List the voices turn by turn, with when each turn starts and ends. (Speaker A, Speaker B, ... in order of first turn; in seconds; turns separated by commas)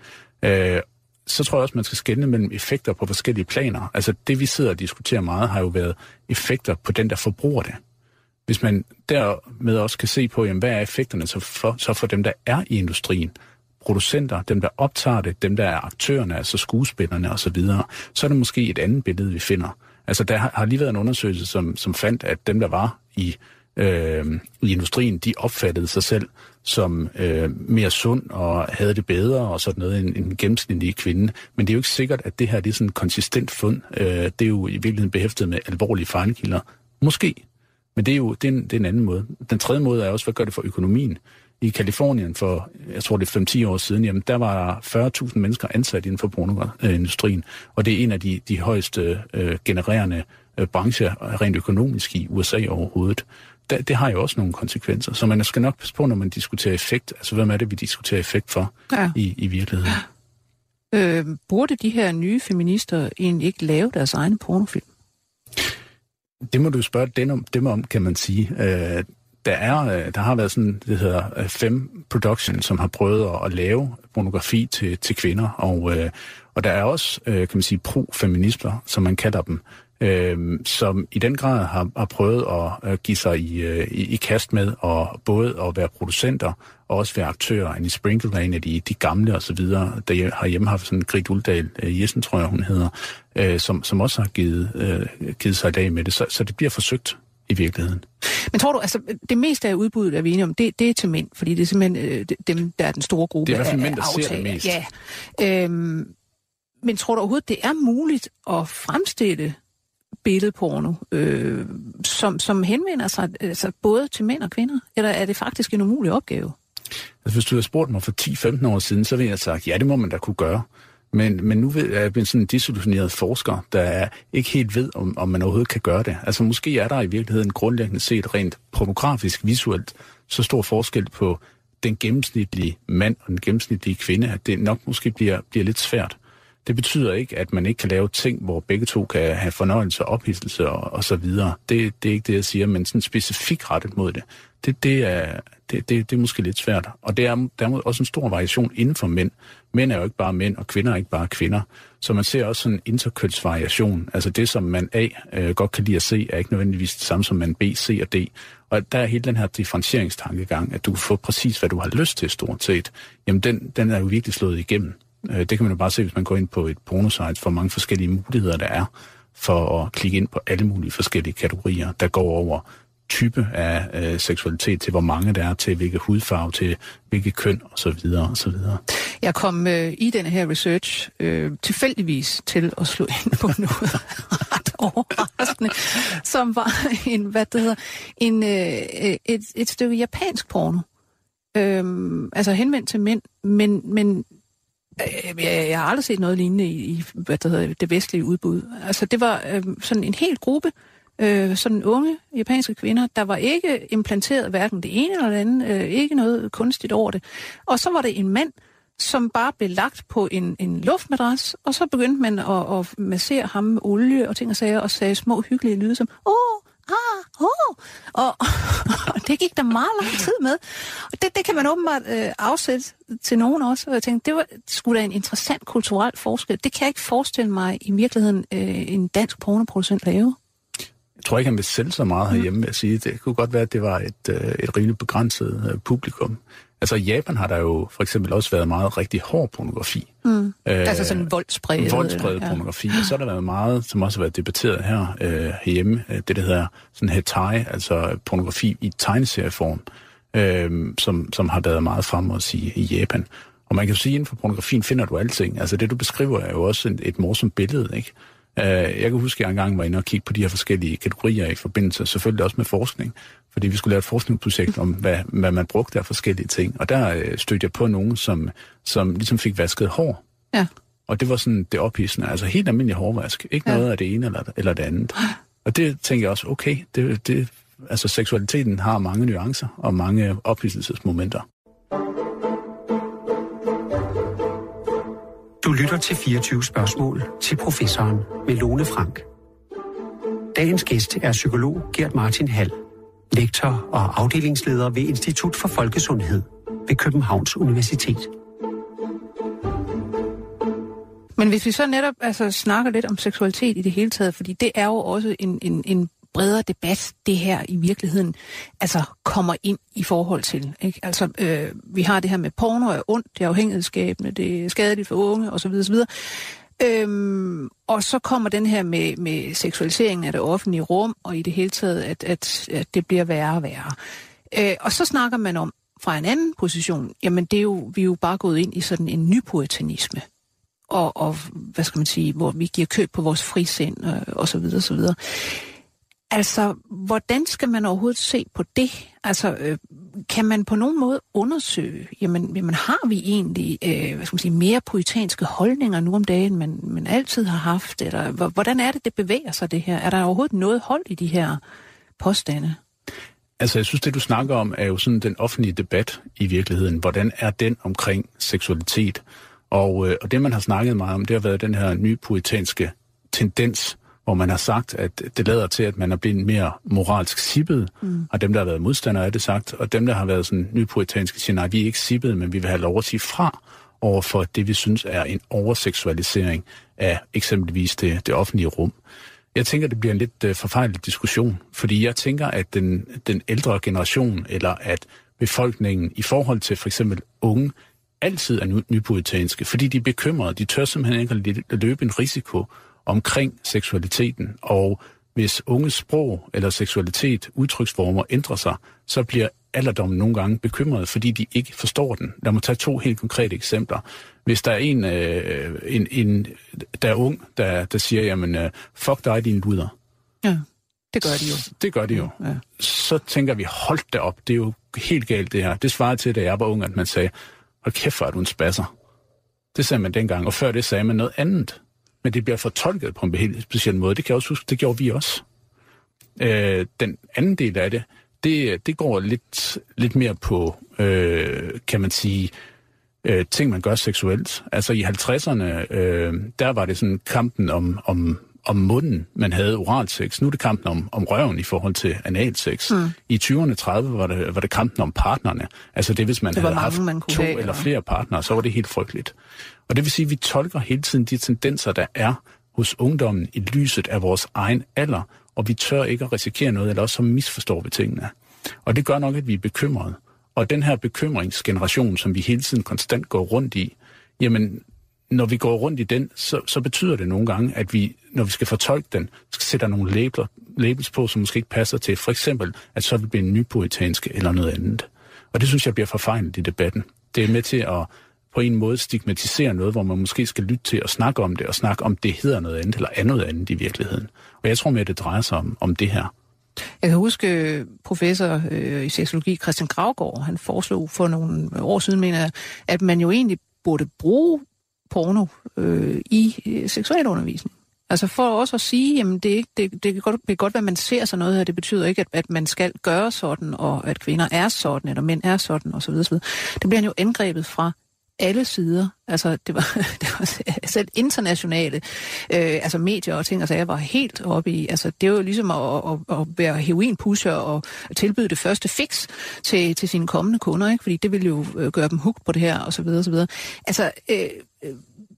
Speaker A: 0.4-7.8, Speaker A: 8.5-37.4, Speaker A: 38.0-60.0, Speaker B: 60.9-64.8, Speaker A: 66.5-98.0, Speaker B: 98.2-106.1, Speaker A: 103.5-104.8, Speaker B: 106.8-109.6, Speaker B: 110.2-116.5, Speaker A: 117.2-178.8, Speaker B: 179.2-190.8, Speaker B: 191.5-194.2, Speaker B: 195.0-230.3, Speaker A: 231.2-240.1, Speaker B: 240.2-242.6, Speaker A: 240.6-270.2, Speaker A: 271.1-281.4, Speaker C: 285.6-289.2, Speaker C: 290.5-292.8, Speaker C: 293.3-298.3, Speaker B: 301.4-323.9, Speaker B: 324.5-330.2, Speaker B: 330.9-335.6, Speaker B: 336.3-351.6, Speaker B: 352.2-352.8, Speaker A: 353.6-379.0, Speaker A: 379.5-409.9, Speaker B: 410.4-411.7, Speaker A: 411.2-418.9, Speaker A: 419.7-425.4, Speaker A: 426.4-432.5, Speaker A: 433.2-449.3, Speaker B: 446.5-447.9, Speaker A: 449.9-458.3, Speaker A: 458.8-486.3, Speaker B: 487.0-525.0